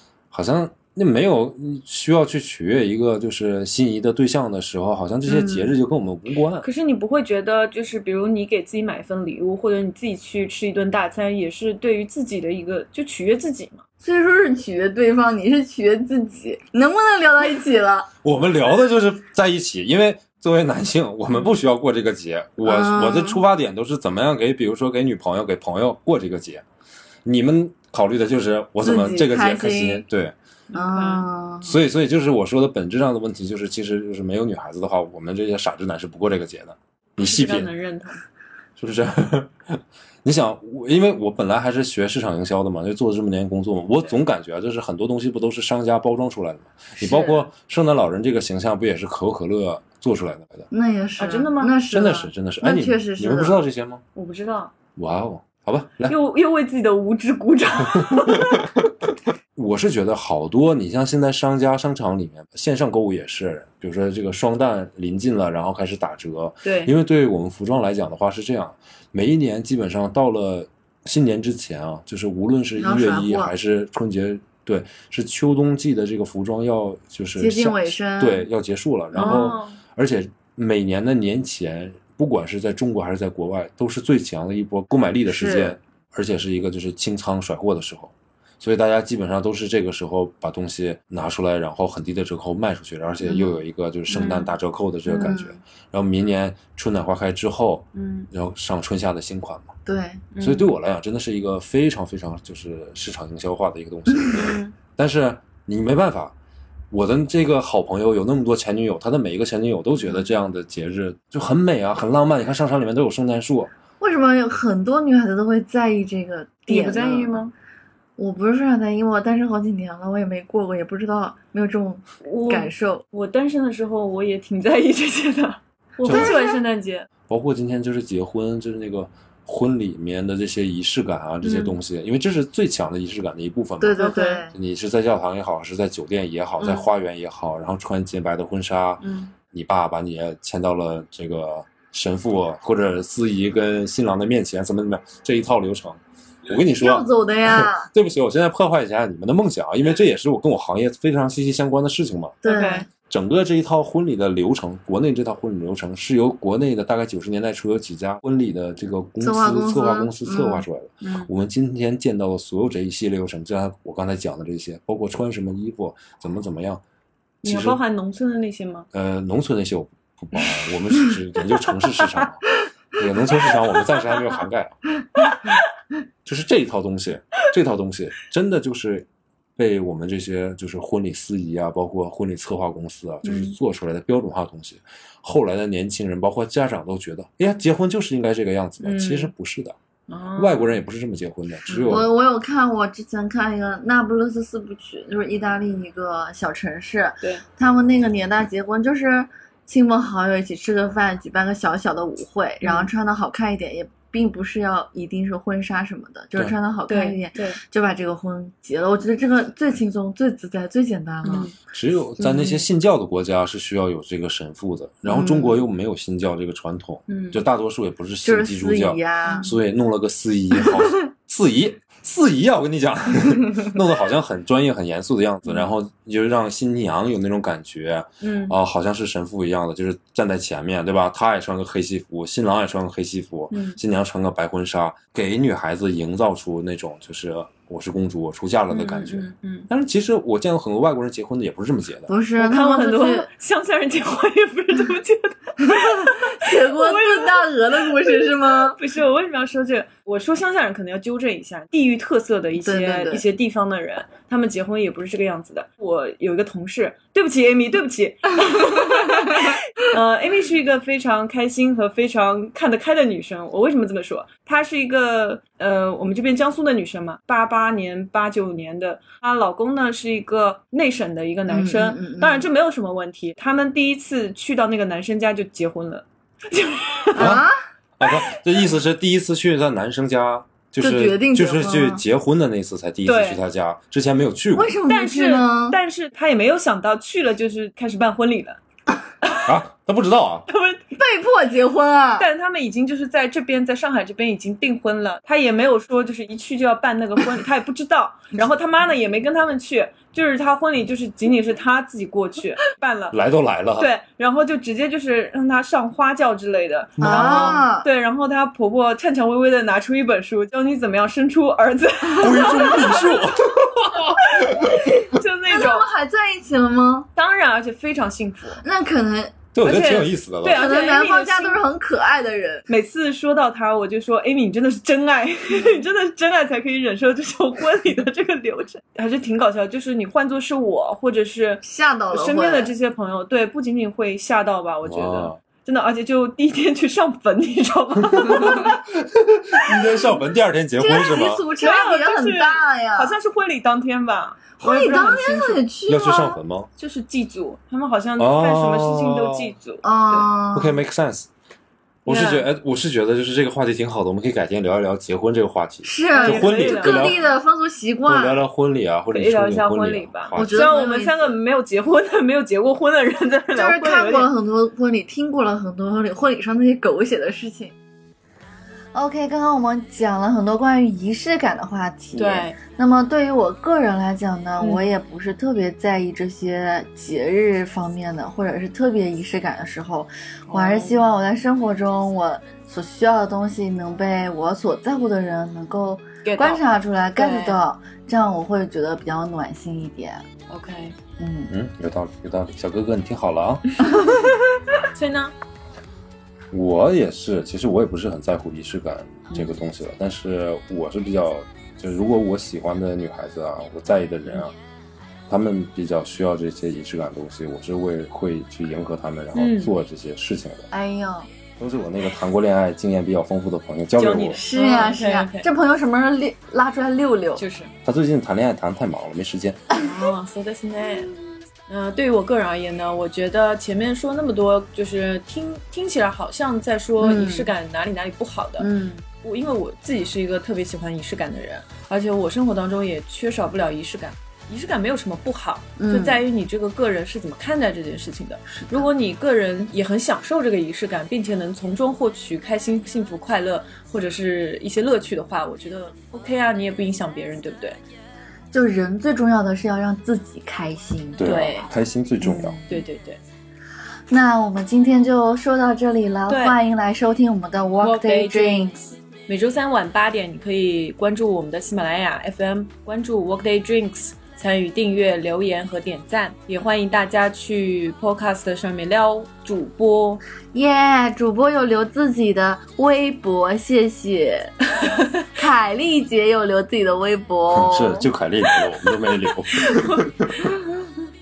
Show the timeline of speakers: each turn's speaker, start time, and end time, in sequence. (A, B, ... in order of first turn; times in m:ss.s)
0:00.3-0:06.7 A
0:05.2-0:05.7 B
0:06.6-0:13.8 B
0:14.0-0:18.1 C
0:18.2-0:26.6 A
0:22.6-0:23.4 C
0:27.2-0:30.3 A
0:28.8-0:30.0 C
0:30.7-0:31.2 B
0:30.7-0:31.8 C
0:31.6-0:37.7 A
0:37.2-0:38.2 B
0:38.8-0:50.7 A
0:47.0-0:47.4 B
0:50.7-0:53.6 C
0:51.2-0:51.8 B
0:51.9-0:54.0 A
0:54.1-0:54.7 B
0:55.0-0:56.1 A
0:56.0-0:58.7 B
0:58.0-0:58.7 A
0:59.6-1:39.7 A
1:06.6-1:06.9 B
1:12.8-1:13.5 C
1:17.4-1:18.5 C
1:19.1-1:19.8 B
1:19.2-1:19.5 C
1:25.3-1:25.8 C
1:33.2-1:33.6 C
1:34.1-1:34.6 B
1:35.1-1:35.5 C
1:37.9-1:38.3 B
1:39.8-1:40.2 C
1:40.3-1:40.8 B
1:40.4-1:46.3 A
1:44.3-1:44.7 B
1:46.9-1:53.7 A
1:54.0-1:57.4 C
1:56.6-1:57.5 B
1:58.2-2:03.0 C
2:02.2-2:07.1 B
2:06.0-2:06.4 A
2:06.1-2:06.4 C
2:07.3-2:32.4 A
2:11.4-2:11.8 B
2:13.8-2:14.5 C
2:13.9-2:14.5 B
2:16.6-2:16.9 B
2:19.0-2:19.3 B
2:26.8-2:27.9 C
2:32.4-2:32.8 C
2:32.4-2:32.9 B
2:33.1-2:46.8 A
2:39.2-2:40.6 C
2:41.0-2:41.3 B
2:47.4-2:48.9 B
2:47.4-2:47.8 A
2:48.9-2:54.8 A
2:50.4-2:50.7 B
2:56.2-3:09.7 A
3:03.2-3:03.6 B
3:08.8-3:09.3 B
3:10.1-3:10.8 B
3:10.4-3:12.1 A
3:11.7-3:12.0 B
3:11.8-3:31.5 C
3:22.6-3:22.9 B
3:26.9-3:27.6 B
3:31.2-3:31.5 B
3:31.6-4:02.1 A
3:32.2-3:32.6 B
3:35.0-3:35.6 C
3:37.1-3:37.4 B
3:38.2-3:39.5 C
3:39.2-3:39.5 B
3:48.2-3:48.5 B
3:53.5-3:53.8 B
3:58.7-3:59.7 B
4:02.1-4:03.3 C
4:02.4-4:37.3 B
4:06.1-4:08.8 C
4:12.5-4:13.2 C
4:31.5-4:32.5 C
4:37.1-4:37.5 C
4:37.2-4:37.5 A
4:38.0-4:44.8 A
4:40.8-4:42.0 C
4:43.0-4:43.4 B
4:44.5-4:45.8 C
4:44.9-4:48.6 B
4:49.4-4:50.5 A
4:50.5-4:50.8 B
4:50.9-4:52.3 C
4:52.2-5:03.2 B
5:03.1-5:03.9 A
5:03.8-5:13.3 B
5:07.0-5:07.6 A
5:07.0-5:07.9 C
5:12.1-5:14.9 A
5:14.2-5:15.8 B
5:15.5-5:17.1 C
5:17.2-5:18.6 B
5:18.6-5:19.4 C
5:19.5-5:20.6 A
5:19.6-5:21.6 B
5:20.4-5:22.6 C
5:22.7-5:38.8 B
5:31.6-5:32.7 C
5:34.8-5:35.4 A
5:38.2-5:41.4 A
5:39.7-5:40.0 C
5:40.8-5:43.2 C
5:41.6-5:45.6 B
5:44.6-5:46.4 C
5:45.9-5:46.7 A
5:46.8-5:50.3 B
5:48.2-5:49.5 A
5:49.8-5:50.8 C
5:50.5-5:51.3 A
5:52.0-5:57.2 A
5:52.1-5:52.5 B
5:55.8-5:58.4 C
5:56.1-5:57.3 B
5:58.0-6:00.6 A
5:59.1-6:04.3 B
6:00.3-6:01.3 C
6:03.5-6:07.7 C
6:08.9-6:30.2 C
6:12.2-6:12.6 B
6:14.6-6:14.9 B
6:20.5-6:21.0 B
6:26.2-6:26.6 B
6:27.1-6:27.6 B
6:30.5-6:31.0 B
6:31.2-6:31.5 C
6:31.5-6:33.8 A
6:34.9-6:35.3 B
6:36.5-6:44.5 A
6:45.3-6:50.7 A
6:49.3-6:49.7 B
6:50.7-6:51.3 C
6:51.6-6:54.4 A
6:54.0-6:55.5 B
6:54.4-6:57.4 C
6:57.4-6:57.7 B
6:57.8-6:59.6 A
6:59.7-7:01.2 B
7:01.7-7:27.8 B
7:07.0-7:07.5 C
7:08.6-7:09.0 C
7:15.8-7:16.2 C
7:18.5-7:18.9 C
7:28.5-7:31.3 C
7:31.2-7:32.6 A
7:31.2-7:31.7 B
7:32.2-7:32.8 C
7:32.2-7:33.2 B
7:34.1-7:38.8 C
7:36.3-7:36.6 B
7:37.8-7:38.8 B
7:39.3-7:50.2 B
7:50.5-7:54.5 C
7:55.3-7:58.1 C
7:57.5-8:00.3 A
7:59.5-8:00.1 B